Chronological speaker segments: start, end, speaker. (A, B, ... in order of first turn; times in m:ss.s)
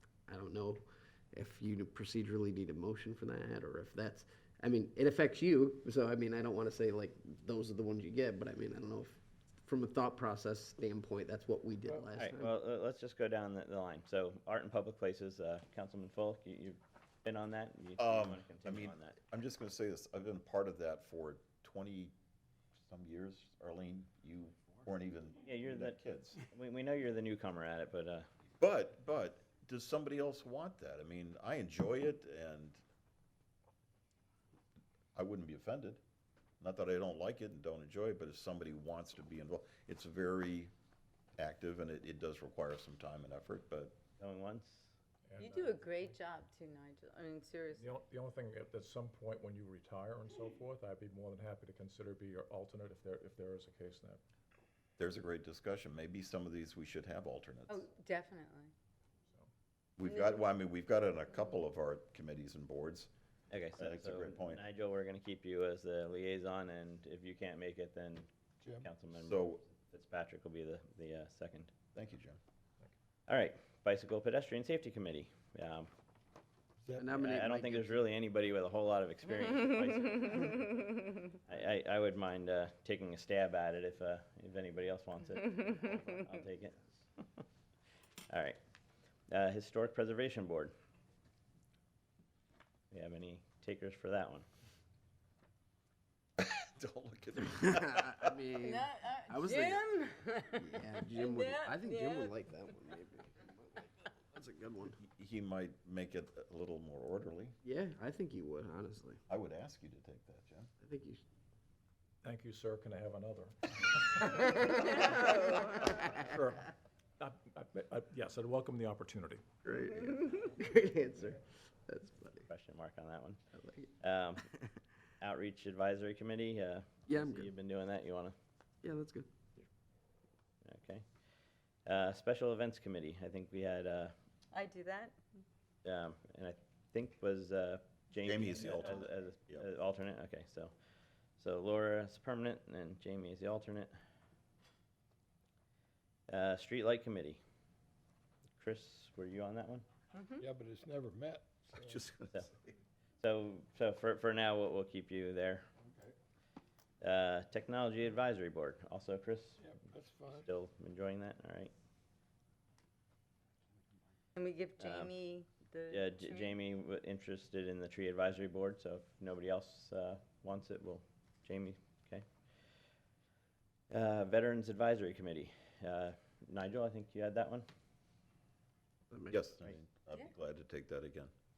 0:00.2-0:12.5 A
0:12.2-0:19.2 B
0:18.0-0:22.1 C
0:22.8-0:26.4 C
0:25.4-0:28.2 B
0:28.6-0:32.8 C
0:35.1-0:36.0 C
0:36.6-0:40.7 C
0:41.4-0:44.0 C
0:44.2-0:44.9 B
0:45.3-0:46.2 D
0:45.4-0:47.9 E
0:47.7-0:54.2 D
0:55.0-0:57.8 C
0:57.7-0:58.7 E
1:00.0-1:03.1 C
1:00.0-1:00.4 E
1:03.5-1:08.3 B
1:03.8-1:04.6 C
1:08.6-1:08.9 F
1:08.8-1:11.7 B
1:09.1-1:09.6 C
1:11.9-1:12.4 C
1:13.3-1:15.9 B
1:16.8-1:17.1 F
1:17.0-1:18.0 A
1:17.1-1:27.4 B
1:28.3-1:28.6 B
1:29.3-1:30.7 B
1:32.9-1:34.4 B
1:36.4-1:38.3 C
1:37.6-1:39.9 A
1:38.5-1:42.3 E
1:40.5-1:45.0 A
1:45.0-1:47.6 C
1:47.6-1:49.2 A
1:49.3-1:50.7 C
1:50.8-1:51.2 A
1:52.2-1:59.4 D
1:59.6-2:02.4 A
2:02.4-2:03.4 B
2:03.5-2:03.9 A
2:04.0-2:04.5 B
2:05.2-2:08.3 B
2:07.1-2:07.5 A
2:08.8-2:09.6 A
2:10.6-2:11.0 B
2:11.8-2:14.1 B
2:14.5-2:15.2 E
2:15.8-2:20.7 B
2:18.2-2:19.6 C
2:21.4-2:23.9 B
2:26.3-2:27.4 B
2:28.6-2:29.8 B
2:30.4-2:32.0 F
2:31.7-2:32.7 C
2:33.2-2:35.6 B
2:35.8-2:36.1 F
2:37.0-2:41.7 B
2:39.6-2:40.5 F
2:44.4-2:46.6 E
2:44.8-2:45.1 B
2:45.9-2:52.2 B
2:53.9-2:57.6 B
2:59.1-2:59.4 A
2:59.3-3:01.3 C